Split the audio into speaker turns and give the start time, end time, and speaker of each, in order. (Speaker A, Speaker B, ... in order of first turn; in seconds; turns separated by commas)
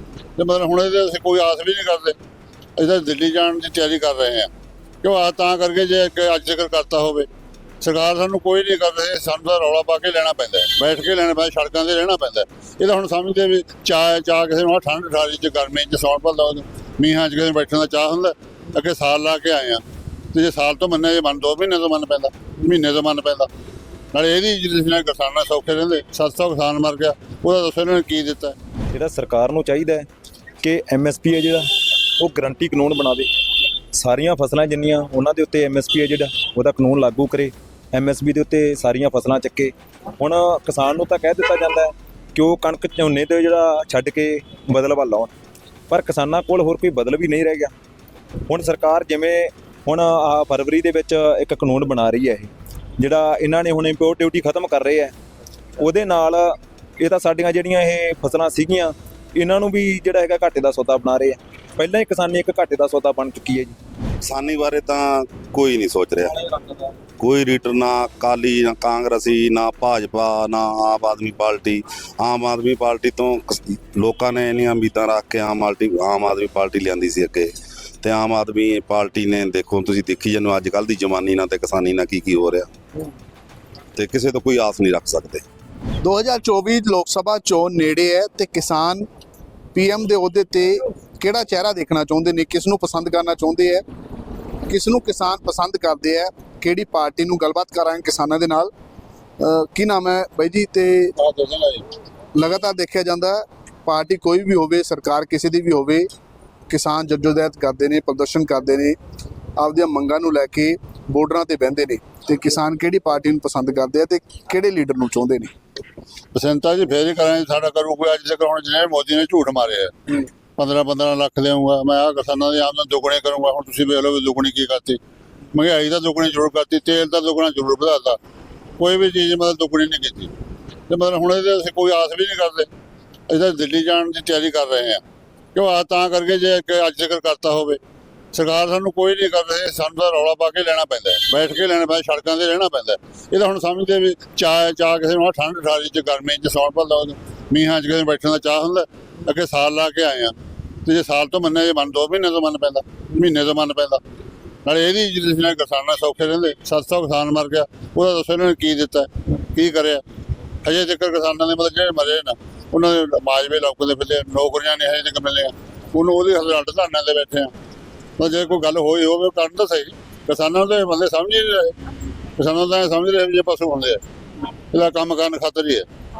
Speaker A: 0.3-2.2, Speaker A: 2.8-4.5, Speaker A: 5.0-7.3, Speaker A: 7.8-23.5, Speaker A: 24.1-28.6, Speaker B: 28.9-30.1, Speaker B: 30.6-31.6, Speaker B: 32.2-33.3, Speaker B: 33.9-45.3, Speaker B: 45.9-47.7, Speaker B: 48.5-55.1, Speaker B: 55.8-63.7, Speaker C: 64.2-66.4, Speaker C: 67.2-77.5, Speaker C: 78.0-82.7, Speaker C: 84.0-85.4, Speaker D: 86.0-89.1, Speaker D: 89.7-93.8, Speaker D: 94.7-98.7, Speaker D: 99.4-101.1, Speaker A: 101.2-101.9, Speaker D: 102.3-106.1, Speaker D: 106.7-109.0, Speaker D: 109.6-115.5, Speaker A: 116.3-125.0, Speaker A: 125.5-128.2, Speaker A: 128.8-130.3, Speaker A: 130.9-132.7, Speaker A: 133.3-135.0, Speaker A: 135.5-137.8, Speaker A: 138.3-154.0, Speaker A: 154.6-160.0, Speaker A: 160.6-167.5, Speaker A: 168.2-171.8, Speaker A: 172.4-174.0, Speaker A: 174.7-175.9